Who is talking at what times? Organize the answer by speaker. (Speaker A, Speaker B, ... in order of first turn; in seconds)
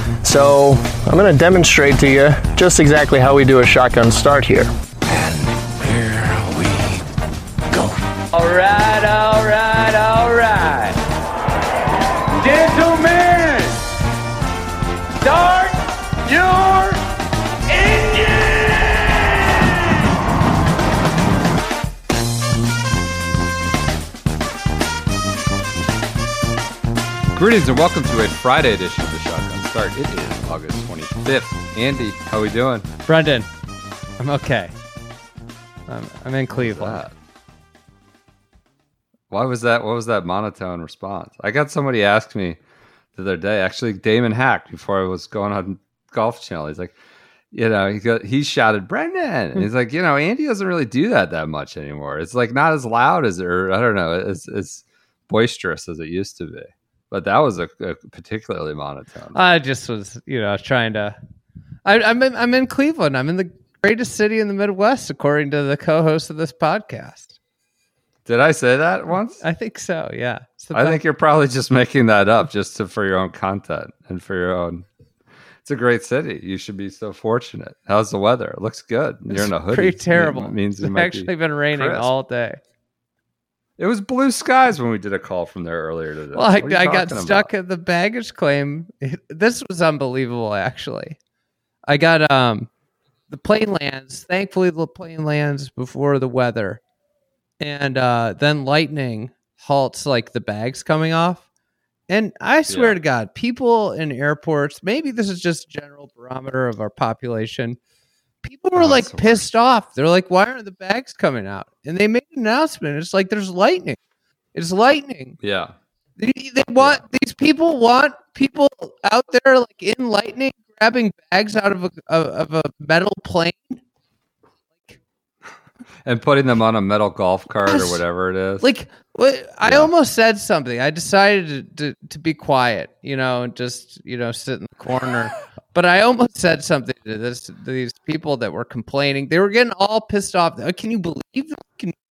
Speaker A: 0.2-4.7
Speaker B: 5.0-7.0, 7.7-8.1
Speaker C: 8.3-11.0, 12.3-13.8, 15.2-17.0, 17.7-19.1, 33.1-33.5, 34.2-34.7, 35.9-37.0, 59.3-61.1, 61.8-67.4, 69.4-71.0, 79.3-82.6, 86.3-91.2, 91.9-92.7, 93.3-96.8, 97.6-101.4, 102.1-107.8, 108.4-114.0, 114.5-115.4, 116.2-123.8, 124.7-125.0, 127.7-128.0, 128.6-142.0
Speaker D: 27.3-32.9, 36.5-37.1, 39.3-42.6, 43.1-47.0, 47.5-59.4, 68.2-69.4, 70.7-74.8, 75.6-82.1, 83.8-87.5, 102.7-103.0, 108.8-109.4, 115.4-115.7, 126.0-128.7, 129.6-129.9